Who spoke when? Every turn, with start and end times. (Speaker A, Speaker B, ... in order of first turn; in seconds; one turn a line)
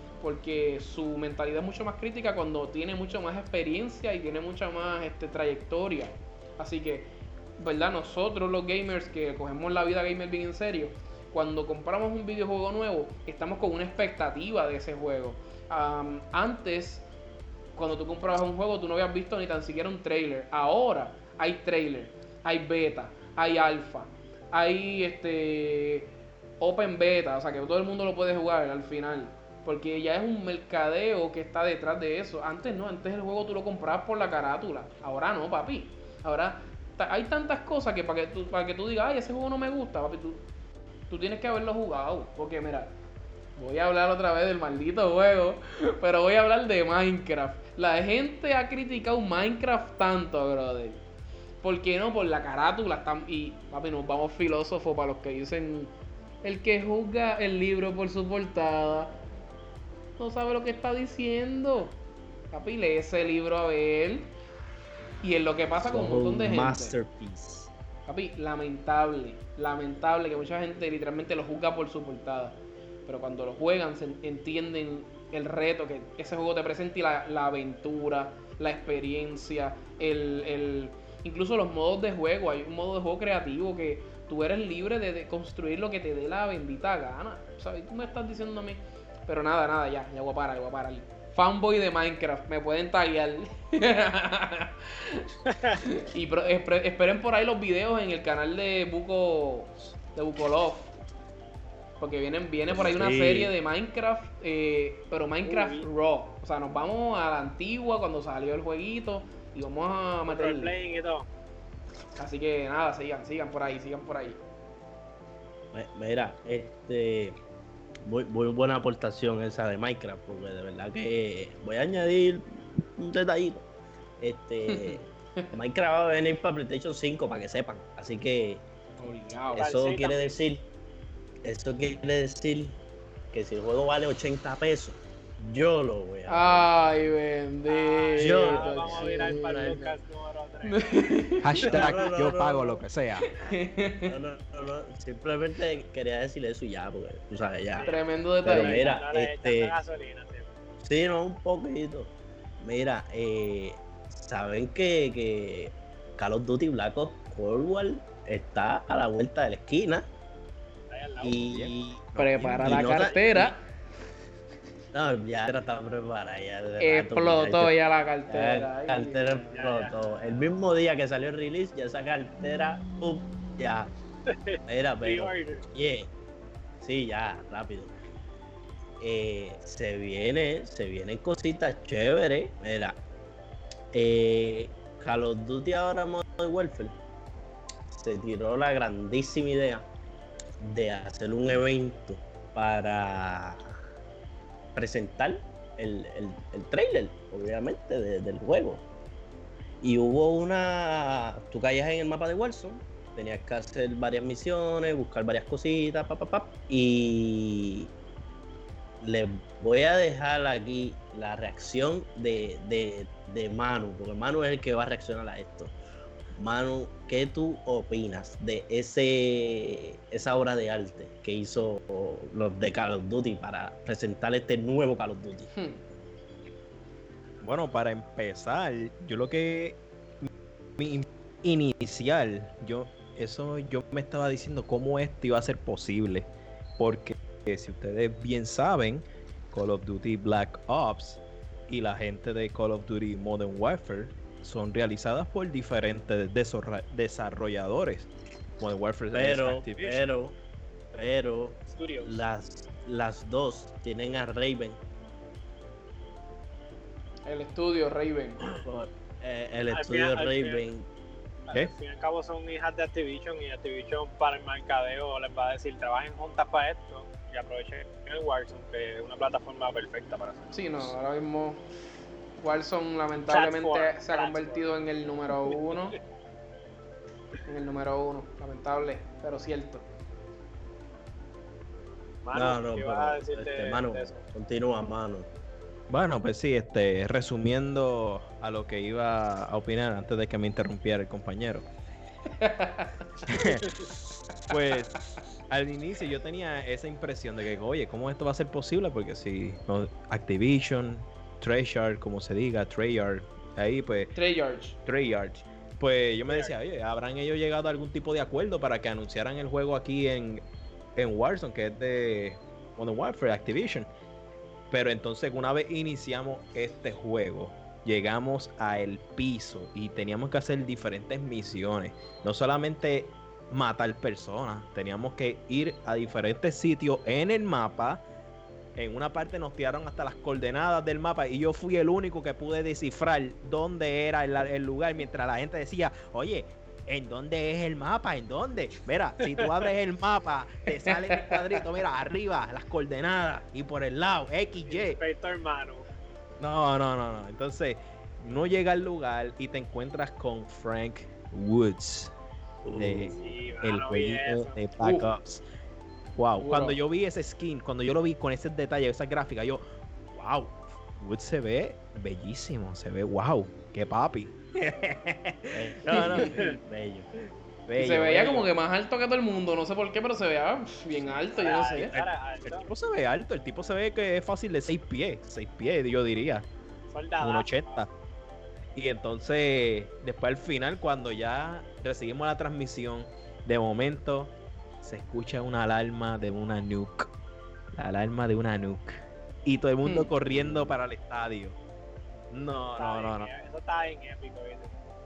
Speaker A: 0.2-17.1
Speaker A: 17.7-40.4
Speaker A: 41.1-42.9
Speaker A: 43.5-51.0
Speaker A: 51.6-59.1
Speaker A: 60.2-62.0
Speaker A: 62.5-64.3
Speaker A: 65.2-67.0
Speaker B: 65.9-67.7
Speaker A: 68.1-100.9
Speaker C: 95.5-95.8
Speaker A: 102.0-110.7
Speaker B: 102.7-103.5
Speaker C: 105.4-105.9
Speaker C: 110.3-111.3
Speaker A: 112.2-114.4
Speaker B: 115.7-117.4
Speaker B: 118.0-123.7
Speaker B: 124.2-128.7
Speaker A: 124.7-125.5
Speaker A: 129.0-129.7
Speaker B: 129.5-130.6
Speaker C: 129.6-130.3
Speaker B: 131.4-132.8
Speaker B: 133.3-136.7
Speaker A: 136.3-139.7
Speaker C: 137.7-141.1
Speaker B: 138.2-139.9
Speaker A: 140.7-141.7
Speaker D: 141.4-143.3
Speaker B: 141.6-142.8
Speaker C: 141.6-142.0
Speaker A: 143.3-144.1
Speaker B: 144.0-149.7
Speaker C: 147.7-150.5
Speaker A: 147.8-149.0
Speaker B: 150.8-160.1
Speaker C: 160.9-161.4
Speaker B: 161.2-163.6
Speaker D: 161.4-162.9
Speaker A: 162.2-163.6
Speaker C: 162.9-163.2
Speaker B: 164.9-167.7
Speaker A: 166.8-169.6
Speaker B: 168.3-173.9
Speaker C: 169.5-169.9
Speaker C: 174.2-175.6
Speaker B: 174.7-176.1
Speaker B: 176.8-177.9
Speaker B: 179.0-183.0
Speaker B: 183.9-187.0
Speaker B: 187.9-189.8
Speaker B: 190.6-193.8
Speaker B: 194.7-198.8
Speaker B: 199.8-207.9
Speaker B: 209.0-215.7
Speaker B: 216.4-225.5
Speaker A: 225.5-225.8
Speaker D: 227.4-250.1
Speaker B: 249.1-250.3
Speaker B: 250.9-254.8
Speaker C: 251.7-252.2
Speaker A: 257.2-258.5
Speaker B: 258.4-260.9
Speaker C: 259.7-260.6
Speaker C: 261.5-270.9
Speaker A: 270.5-271.6
Speaker A: 272.4-276.0
Speaker C: 273.3-274.6
Speaker C: 275.5-275.7
Speaker A: 277.4-279.9
Speaker C: 282.2-284.2
Speaker B: 282.3-285.3
Speaker D: 285.9-291.7
Speaker A: 292.4-293.3
Speaker D: 293.2-304.1
Speaker A: 304.1-304.8
Speaker D: 304.9-310.4
Speaker C: 306.3-306.5
Speaker D: 310.9-313.9
Speaker D: 314.7-328.1
Speaker D: 328.8-345.0
Speaker C: 339.2-339.5
Speaker C: 344.6-345.9
Speaker D: 346.4-352.1
Speaker B: 352.6-353.2
Speaker D: 352.7-355.4
Speaker C: 353.1-354.6
Speaker A: 354.8-355.1
Speaker D: 356.1-366.4
Speaker A: 356.4-356.8
Speaker B: 365.5-367.1
Speaker D: 367.7-368.5
Speaker A: 367.8-371.9
Speaker C: 371.3-372.7
Speaker D: 371.9-376.5
Speaker C: 376.9-377.8
Speaker D: 377.2-377.9
Speaker D: 378.7-387.1
Speaker D: 387.7-391.6
Speaker A: 389.8-390.1
Speaker B: 390.3-390.8
Speaker D: 392.3-393.3
Speaker C: 392.8-394.7